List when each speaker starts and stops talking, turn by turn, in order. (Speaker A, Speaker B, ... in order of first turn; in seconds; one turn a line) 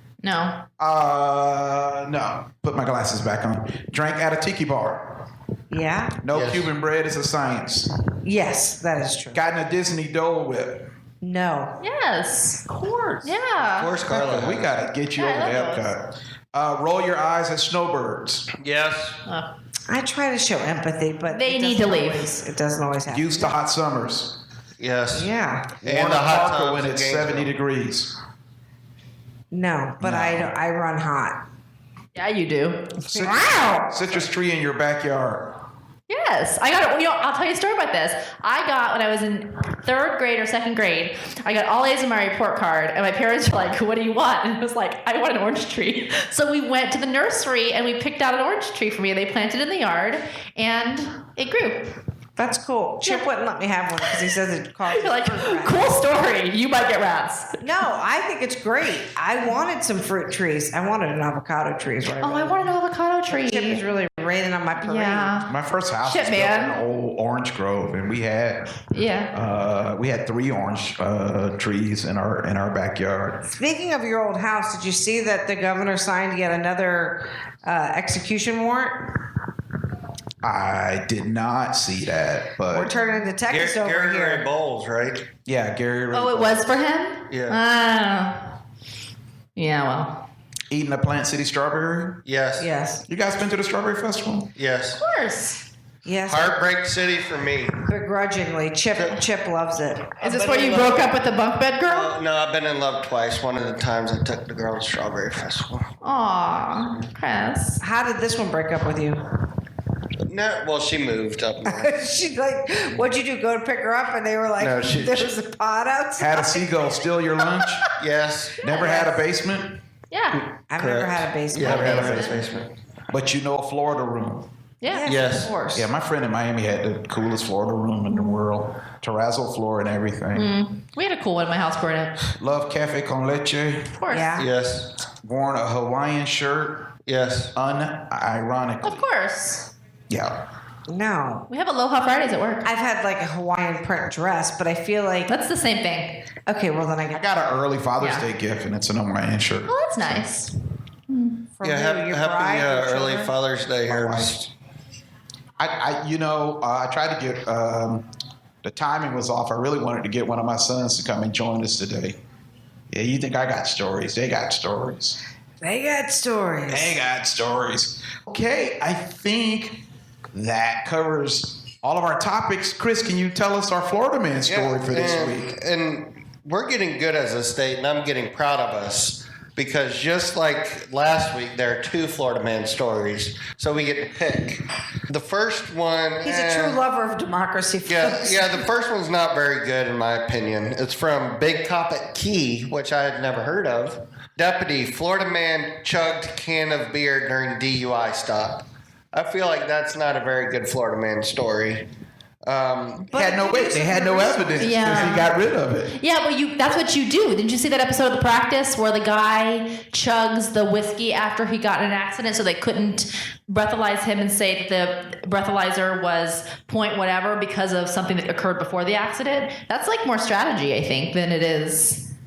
Speaker A: 0.2-0.6
Speaker B: 0.8-5.2
Speaker C: 5.7-6.2
Speaker B: 6.2-7.9
Speaker D: 6.3-6.7
Speaker C: 8.2-9.4
Speaker B: 9.3-10.9
Speaker C: 11.2-11.8
Speaker A: 11.8-12.6
Speaker B: 12.7-13.3
Speaker A: 13.2-13.9
Speaker D: 13.8-14.8
Speaker B: 14.1-18.5
Speaker A: 15.2-15.9
Speaker D: 18.6-19.2
Speaker C: 19.9-23.6
Speaker A: 21.3-22.3
Speaker B: 23.1-24.4
Speaker D: 24.8-27.5
Speaker C: 25.1-25.8
Speaker B: 25.8-28.1
Speaker C: 29.5-31.4
Speaker B: 30.0-30.5
Speaker A: 32.1-32.8
Speaker B: 33.1-35.6
Speaker C: 33.1-33.9
Speaker A: 36.1-51.9
Speaker C: 52.4-56.0
Speaker A: 54.9-57.6
Speaker C: 57.6-62.7
Speaker A: 62.2-63.8
Speaker C: 63.3-65.4
Speaker A: 64.8-65.5
Speaker B: 65.4-68.7
Speaker A: 66.0-66.8
Speaker A: 68.9-69.3
Speaker B: 69.3-73.5
Speaker C: 73.5-79.1
Speaker B: 80.4-82.9
Speaker C: 82.7-84.5
Speaker D: 83.5-85.2
Speaker B: 85.5-86.7
Speaker A: 86.1-88.5
Speaker D: 87.3-87.6
Speaker A: 89.6-90.2
Speaker B: 90.7-92.2
Speaker D: 92.3-92.7
Speaker C: 92.6-93.0
Speaker B: 93.1-94.5
Speaker D: 94.6-95.0
Speaker A: 95.0-95.6
Speaker C: 96.0-96.6
Speaker D: 96.2-97.8
Speaker C: 97.9-100.2
Speaker D: 100.2-101.2
Speaker A: 100.2-102.2
Speaker D: 101.9-105.9
Speaker A: 106.0-107.8
Speaker C: 107.8-109.2
Speaker D: 110.2-111.9
Speaker C: 111.7-116.6
Speaker B: 114.6-115.3
Speaker B: 116.2-117.8
Speaker D: 118.0-118.6
Speaker B: 118.6-119.8
Speaker C: 118.7-119.2
Speaker A: 120.1-120.5
Speaker D: 120.3-122.7
Speaker C: 120.7-122.4
Speaker B: 121.6-122.2
Speaker A: 121.6-122.4
Speaker B: 123.1-124.5
Speaker A: 124.8-125.1
Speaker C: 124.8-125.9
Speaker D: 125.0-125.5
Speaker B: 125.7-130.6
Speaker A: 130.3-132.2
Speaker B: 132.3-133.9
Speaker A: 133.9-134.4
Speaker C: 134.1-134.5
Speaker D: 134.3-134.9
Speaker B: 135.2-136.9
Speaker D: 137.1-137.5
Speaker B: 137.6-139.1
Speaker A: 138.8-139.7
Speaker B: 140.1-140.4
Speaker C: 140.9-141.5
Speaker A: 141.5-142.7
Speaker C: 142.6-145.3
Speaker A: 145.3-146.2
Speaker C: 146.5-147.2
Speaker B: 147.1-150.2
Speaker A: 148.0-148.3
Speaker A: 149.7-150.5
Speaker A: 151.1-151.4
Speaker C: 151.6-153.3
Speaker D: 151.6-154.5
Speaker B: 153.9-154.4
Speaker B: 155.6-158.1
Speaker B: 158.6-162.2
Speaker B: 162.9-165.2
Speaker C: 165.6-167.0
Speaker B: 166.7-175.5
Speaker D: 174.4-186.8
Speaker C: 186.2-188.7
Speaker D: 187.8-201.9
Speaker D: 202.4-203.1
Speaker C: 203.0-205.2
Speaker B: 203.1-206.0
Speaker A: 204.6-205.3
Speaker A: 206.0-222.1